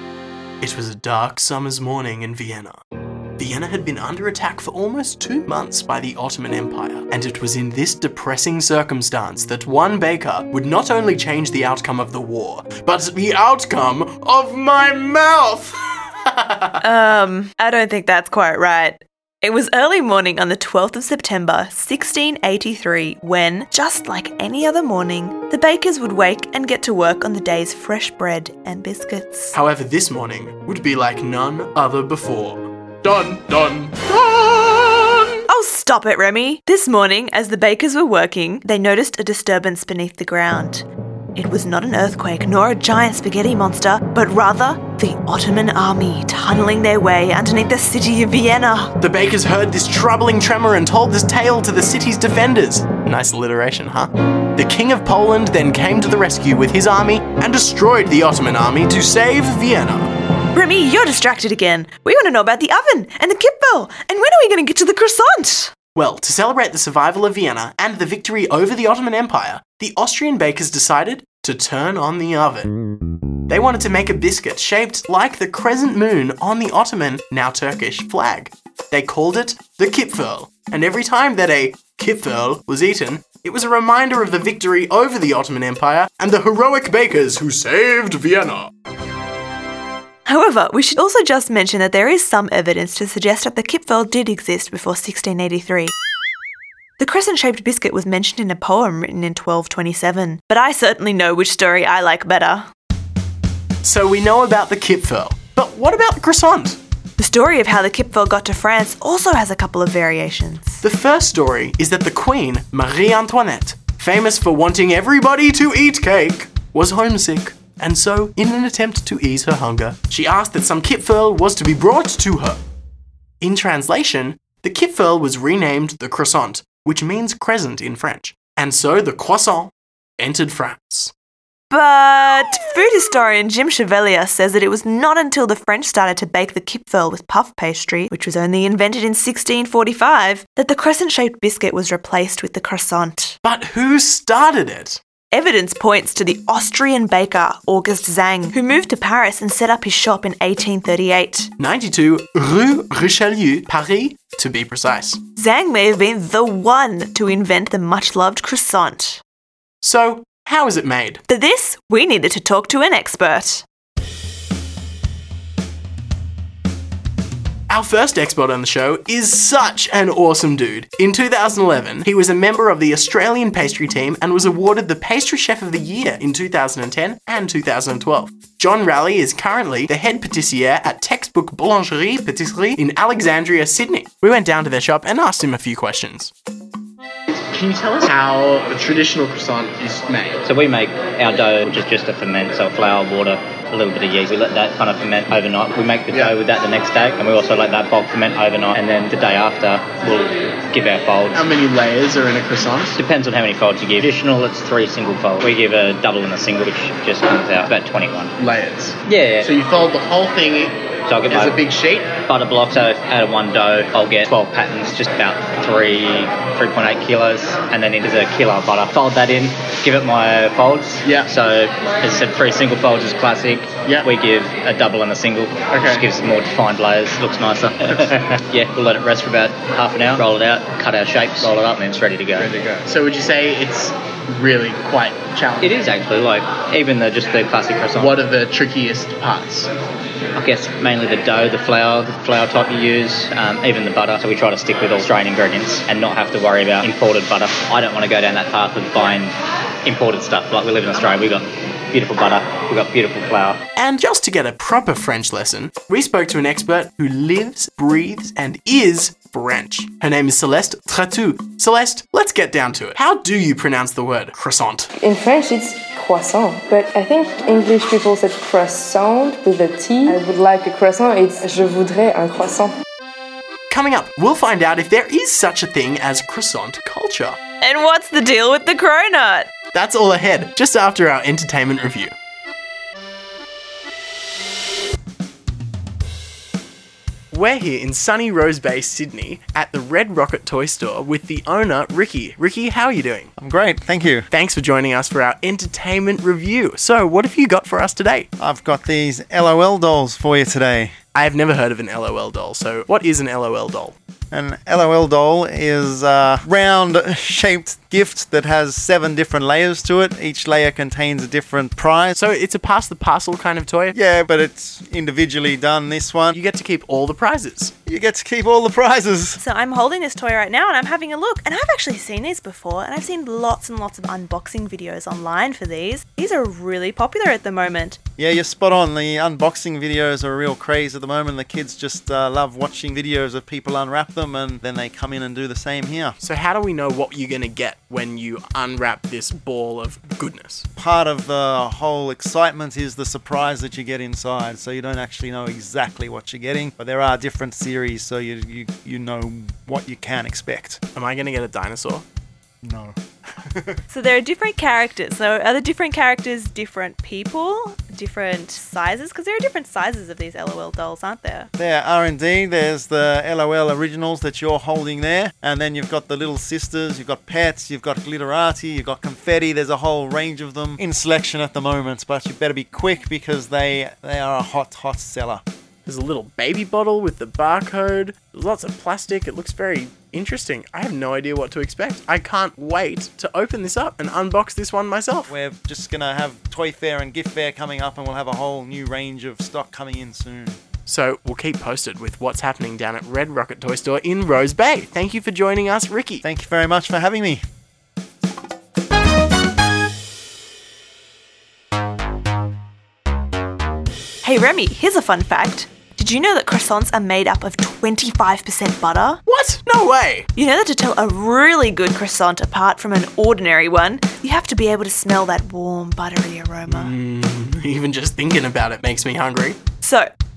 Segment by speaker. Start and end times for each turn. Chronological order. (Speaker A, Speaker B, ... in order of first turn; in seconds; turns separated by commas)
Speaker A: 0.6-2.8, Speaker A: 3.4-15.7, Speaker A: 16.3-16.5, Speaker B: 16.8-29.6, Speaker A: 29.6-35.1, Speaker B: 35.5-49.0, Speaker A: 49.0-60.1, Speaker B: 60.5-65.7, Speaker A: 66.0-72.7, Speaker A: 73.5-88.7, Speaker B: 90.3-95.9, Speaker B: 97.0-102.7, Speaker A: 103.8-106.8, Speaker B: 107.2-110.8, Speaker A: 110.8-122.6, Speaker A: 123.4-131.1, Speaker B: 131.7-143.4, Speaker A: 143.4-145.0, Speaker B: 145.3-151.5, Speaker A: 151.6-155.2, Speaker B: 155.4-159.2, Speaker A: 159.8-161.2, Speaker B: 161.3-163.7, Speaker A: 167.7-186.3, Speaker A: 187.5-190.4, Speaker C: 190.4-201.5, Speaker A: 201.3-202.9, Speaker C: 202.9-208.4, Speaker A: 208.4-209.5, Speaker C: 209.0-209.5, Speaker D: 209.5-210.7, Speaker A: 210.0-210.6, Speaker C: 211.1-211.6, Speaker D: 211.3-212.1, Speaker A: 211.4-211.8, Speaker C: 212.2-232.5, Speaker D: 232.4-233.9, Speaker A: 232.7-233.8, Speaker A: 234.4-235.6, Speaker D: 234.5-235.7, Speaker C: 235.6-238.2, Speaker A: 238.0-239.7, Speaker D: 238.3-239.7, Speaker C: 240.4-249.3, Speaker C: 249.8-253.6, Speaker A: 253.8-264.9, Speaker E: 265.0-272.7, Speaker A: 273.7-277.4, Speaker B: 277.6-279.5, Speaker A: 279.7-282.1, Speaker A: 287.3-293.3, Speaker F: 293.4-294.3, Speaker A: 294.3-298.3, Speaker F: 298.4-300.9, Speaker A: 301.1-304.0, Speaker F: 304.3-312.2, Speaker A: 312.2-314.0, Speaker F: 313.9-316.4, Speaker A: 316.4-317.7, Speaker F: 317.9-319.4, Speaker B: 319.4-328.0, Speaker F: 328.2-336.2, Speaker A: 336.2-340.6, Speaker F: 340.8-350.8, Speaker A: 351.0-352.1, Speaker F: 352.6-353.8, Speaker B: 353.9-361.5, Speaker F: 361.6-375.4, Speaker A: 375.9-385.3, Speaker F: 385.3-390.6, Speaker A: 390.9-396.2, Speaker F: 396.2-397.4, Speaker B: 404.2-409.2, Speaker A: 409.3-410.3, Speaker B: 410.4-416.9, Speaker A: 416.8-419.6, Speaker B: 419.8-420.1